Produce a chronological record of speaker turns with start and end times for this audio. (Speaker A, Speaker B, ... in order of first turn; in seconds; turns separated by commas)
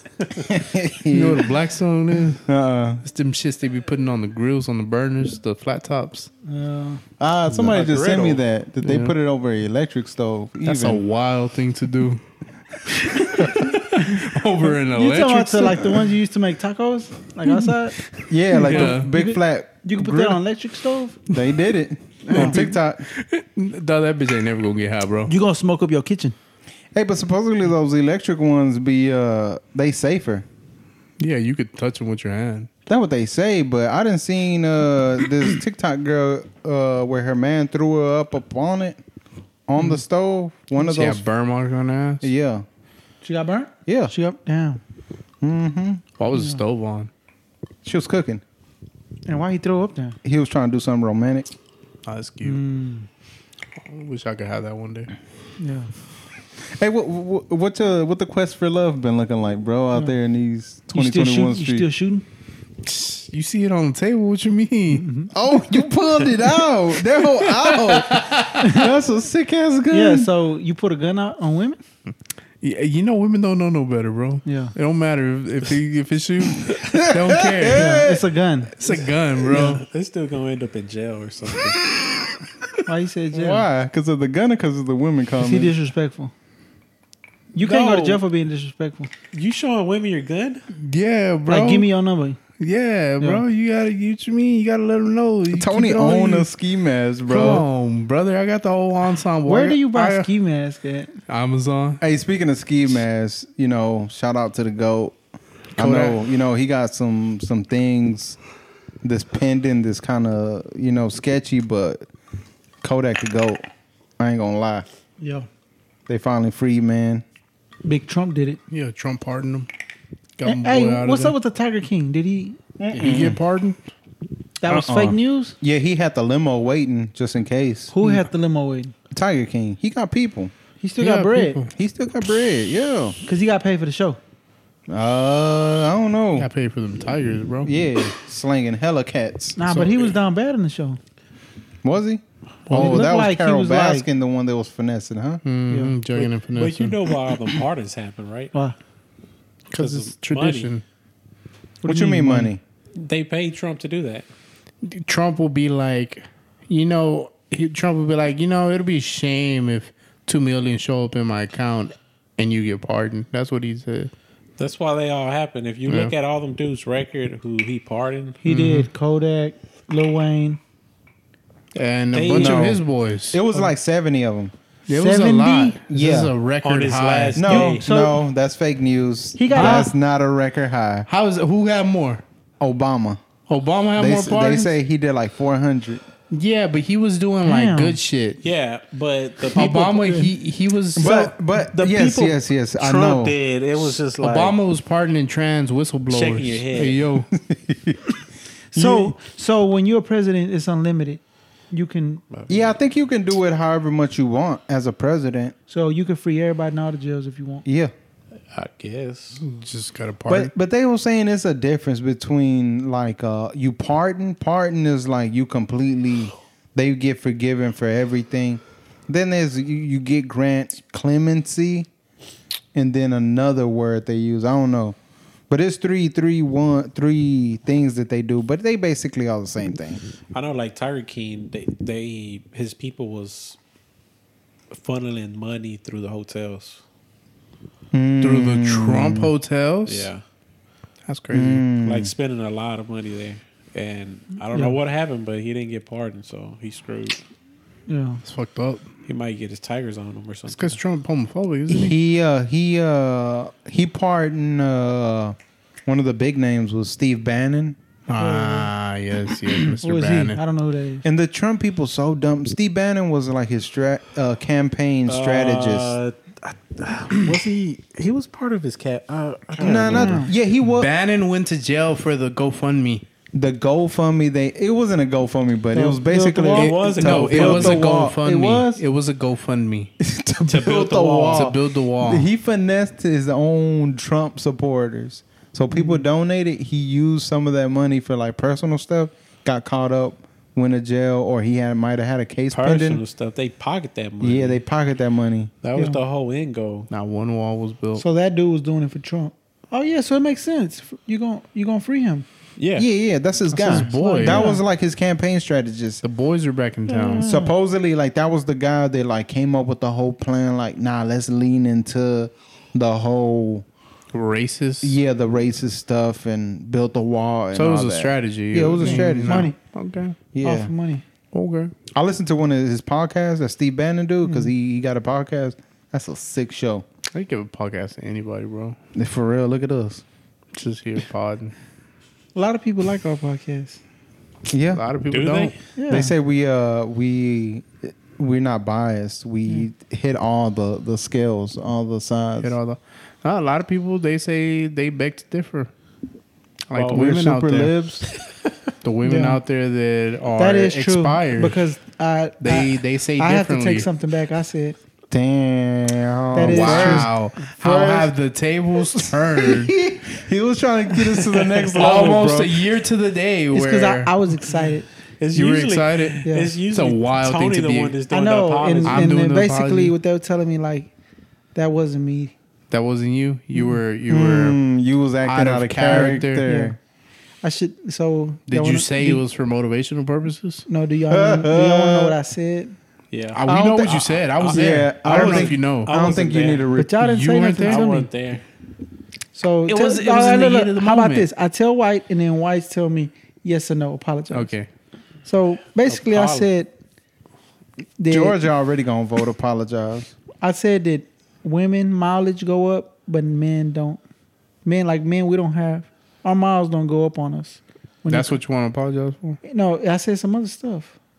Speaker A: 0.4-1.5, Speaker B: 1.1-2.5, Speaker A: 2.5-3.0, Speaker B: 3.0-6.3, Speaker C: 6.5-7.0, Speaker A: 7.2-11.0, Speaker D: 7.6-8.4, Speaker B: 8.8-9.1, Speaker B: 10.6-12.2, Speaker B: 12.9-16.0, Speaker A: 13.3-13.7, Speaker C: 14.9-18.0, Speaker A: 18.3-20.4, Speaker C: 18.5-21.2, Speaker B: 18.5-19.1, Speaker A: 21.3-23.0, Speaker C: 22.2-22.6, Speaker B: 22.3-25.3, Speaker C: 25.3-26.3, Speaker A: 26.9-30.4, Speaker B: 31.2-32.7, Speaker A: 32.9-39.0, Speaker A: 39.7-41.2, Speaker B: 40.8-42.3, Speaker A: 42.2-42.6, Speaker C: 43.2-44.8, Speaker A: 43.9-44.1, Speaker A: 45.4-46.0, Speaker B: 46.2-47.1, Speaker C: 46.3-46.6, Speaker A: 47.8-48.4, Speaker C: 49.3-50.2, Speaker A: 50.2-51.5, Speaker B: 52.0-52.6, Speaker C: 52.4-53.1, Speaker B: 53.8-55.1, Speaker C: 55.6-55.9, Speaker A: 56.7-61.9, Speaker C: 60.9-62.2, Speaker B: 62.8-68.8, Speaker C: 64.9-65.3, Speaker A: 65.3-70.3, Speaker C: 69.9-71.8, Speaker B: 72.6-78.0, Speaker C: 74.4-74.7, Speaker A: 76.6-78.2, Speaker C: 77.7-78.7, Speaker B: 78.8-79.8, Speaker D: 78.8-81.8, Speaker C: 79.5-79.8, Speaker C: 82.8-83.6, Speaker A: 83.3-85.7, Speaker C: 85.4-86.3, Speaker C: 87.5-89.1, Speaker D: 87.5-88.2, Speaker D: 89.3-90.6, Speaker B: 90.7-91.9, Speaker C: 91.5-92.4, Speaker B: 92.6-96.5, Speaker A: 95.5-97.7, Speaker B: 97.3-100.3, Speaker C: 99.5-101.1, Speaker B: 101.3-102.0, Speaker A: 102.0-105.2, Speaker B: 105.8-106.2, Speaker A: 105.8-108.4, Speaker A: 109.0-112.0, Speaker A: 112.8-113.6, Speaker A: 114.2-114.8, Speaker C: 115.2-115.5, Speaker A: 116.1-117.2, Speaker C: 117.8-118.6, Speaker B: 118.7-119.7, Speaker B: 120.4-121.3, Speaker C: 120.4-122.6, Speaker A: 122.8-123.4, Speaker B: 122.9-123.8, Speaker C: 124.6-125.5, Speaker A: 124.7-127.9, Speaker C: 127.9-128.9, Speaker A: 129.1-130.5, Speaker C: 130.8-131.6, Speaker B: 131.0-131.7, Speaker A: 131.7-133.2, Speaker C: 133.2-134.2, Speaker A: 134.9-136.5, Speaker B: 136.4-137.7, Speaker A: 137.6-139.6, Speaker C: 139.6-141.0, Speaker B: 139.7-139.9, Speaker A: 141.8-145.4, Speaker C: 142.7-144.0, Speaker B: 145.4-146.9, Speaker C: 145.7-146.0, Speaker D: 146.1-148.5, Speaker B: 149.7-150.8, Speaker D: 149.8-150.7, Speaker A: 151.8-152.6, Speaker C: 151.8-152.5, Speaker D: 152.9-154.2, Speaker B: 154.8-164.1, Speaker D: 164.6-168.4, Speaker B: 165.9-166.1, Speaker C: 168.4-170.6, Speaker B: 168.4-168.9, Speaker B: 171.7-173.4, Speaker D: 172.1-172.8, Speaker A: 172.3-174.5, Speaker B: 174.9-177.5, Speaker C: 174.9-175.8, Speaker A: 175.9-176.3, Speaker D: 176.6-177.8, Speaker A: 177.3-181.1, Speaker C: 177.5-178.2, Speaker C: 179.3-179.9, Speaker B: 179.5-179.8, Speaker B: 181.1-182.2, Speaker A: 182.6-183.2, Speaker B: 183.5-184.7, Speaker A: 183.9-186.0, Speaker B: 186.3-188.4, Speaker C: 187.4-188.0, Speaker D: 188.4-190.1, Speaker B: 189.5-191.3, Speaker C: 189.7-190.3, Speaker A: 190.9-193.3, Speaker D: 191.0-194.6, Speaker B: 194.2-197.3, Speaker D: 196.1-197.0, Speaker A: 197.3-198.2, Speaker C: 198.7-201.2, Speaker A: 198.7-199.1, Speaker C: 201.7-202.2, Speaker D: 202.3-202.7, Speaker A: 202.5-205.5, Speaker C: 205.7-207.6, Speaker A: 207.6-207.9, Speaker D: 208.5-209.4, Speaker B: 209.4-210.5, Speaker A: 210.3-221.9, Speaker A: 222.7-224.9, Speaker A: 225.5-230.0, Speaker D: 230.3-233.6, Speaker D: 234.7-236.8, Speaker A: 237.9-239.3, Speaker B: 238.2-240.1, Speaker D: 239.8-240.2, Speaker B: 241.1-241.7, Speaker A: 241.3-242.1, Speaker D: 241.8-247.2, Speaker C: 244.5-244.8, Speaker C: 247.9-248.2, Speaker B: 248.2-248.9, Speaker D: 249.1-250.8, Speaker B: 250.5-252.0, Speaker A: 251.7-257.8, Speaker B: 258.1-260.4, Speaker C: 258.2-258.7, Speaker C: 259.5-261.1, Speaker A: 261.0-266.0, Speaker D: 265.1-270.2, Speaker A: 269.6-270.9, Speaker C: 269.6-270.3, Speaker B: 270.7-273.0, Speaker A: 273.3-278.8, Speaker C: 275.7-276.7, Speaker D: 276.5-278.1, Speaker B: 276.5-279.9, Speaker A: 280.0-293.0, Speaker D: 280.4-281.5, Speaker B: 281.3-282.3, Speaker C: 285.7-286.0, Speaker D: 292.5-294.6, Speaker A: 294.2-295.5, Speaker D: 295.6-296.9, Speaker B: 296.9-298.0, Speaker C: 297.9-302.2, Speaker D: 302.6-302.9, Speaker A: 302.8-306.0, Speaker B: 303.5-304.5, Speaker C: 303.6-304.6, Speaker B: 306.0-307.3, Speaker C: 306.9-307.5, Speaker A: 307.2-313.6, Speaker B: 314.1-315.0, Speaker A: 314.8-319.5, Speaker B: 317.5-320.1, Speaker C: 318.8-319.6, Speaker A: 320.3-320.7, Speaker C: 320.4-321.0, Speaker B: 321.3-321.7, Speaker A: 321.9-326.8, Speaker C: 324.2-324.5, Speaker B: 327.1-328.8, Speaker A: 328.9-330.0, Speaker B: 330.5-331.5, Speaker C: 332.3-333.8, Speaker A: 334.5-334.8, Speaker B: 334.7-335.5, Speaker D: 335.1-335.5, Speaker C: 335.8-336.1, Speaker A: 335.9-342.5, Speaker B: 342.4-345.7, Speaker B: 346.7-347.7, Speaker D: 346.7-347.1, Speaker A: 346.9-348.0, Speaker B: 348.8-351.6, Speaker C: 349.0-349.4, Speaker C: 350.4-354.8, Speaker B: 352.4-353.9, Speaker A: 355.1-358.1, Speaker C: 356.3-357.1, Speaker B: 356.4-359.7, Speaker A: 358.8-362.6, Speaker B: 361.3-364.1, Speaker D: 361.8-362.1, Speaker C: 363.5-364.9, Speaker D: 365.2-369.1, Speaker B: 365.3-367.9, Speaker C: 366.2-366.5, Speaker C: 368.1-370.9, Speaker B: 368.8-369.9, Speaker C: 371.5-372.3, Speaker B: 372.7-374.6, Speaker A: 374.1-376.8, Speaker B: 375.2-376.4, Speaker C: 375.9-376.7, Speaker C: 377.4-379.2, Speaker B: 378.5-380.6, Speaker C: 380.7-382.7, Speaker A: 381.1-382.2, Speaker D: 383.1-383.4, Speaker B: 383.3-385.9, Speaker A: 383.4-387.2, Speaker D: 384.4-386.7, Speaker C: 386.8-388.1, Speaker B: 386.9-387.8, Speaker D: 387.6-388.4, Speaker C: 389.3-394.5, Speaker B: 389.6-391.3, Speaker B: 394.3-394.7, Speaker C: 395.2-396.7, Speaker D: 395.9-396.5, Speaker C: 398.0-398.4, Speaker A: 398.1-400.1, Speaker C: 400.4-404.0, Speaker C: 404.6-408.4, Speaker B: 408.1-409.4, Speaker C: 409.4-410.9